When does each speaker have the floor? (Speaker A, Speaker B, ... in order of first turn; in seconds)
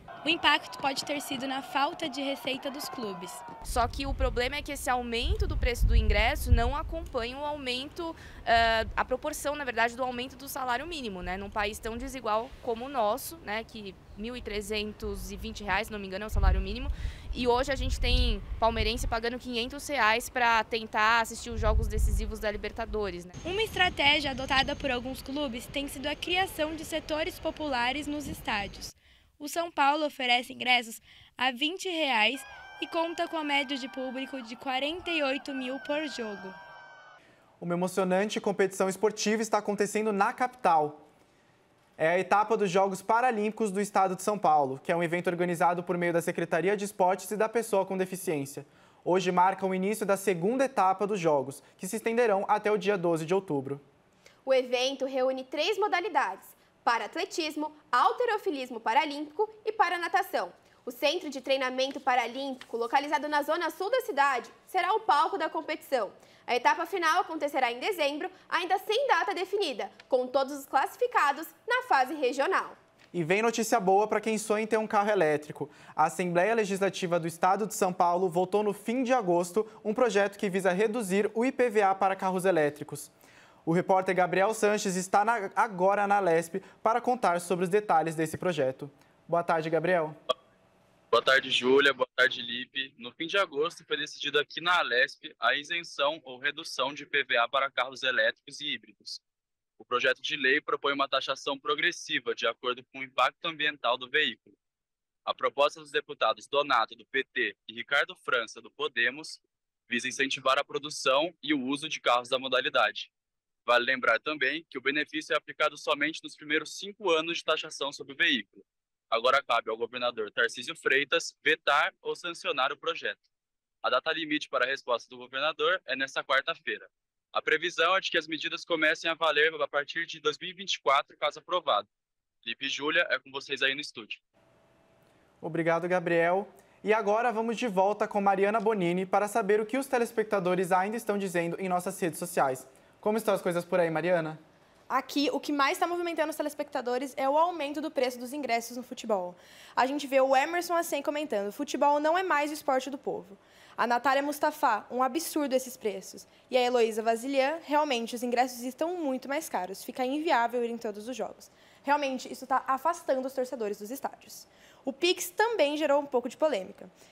Speaker A: 0.2-3.4, 23.4-36.6
Speaker B: 3.6-23.3
Speaker C: 37.6-41.0, 42.0-53.8, 73.1-83.1, 83.7-90.2, 135.4-144.4
Speaker D: 54.5-72.8
Speaker E: 91.1-99.2, 99.8-104.5, 105.3-113.1, 113.7-123.2, 123.8-131.9, 132.4-134.2
Speaker F: 144.9-166.9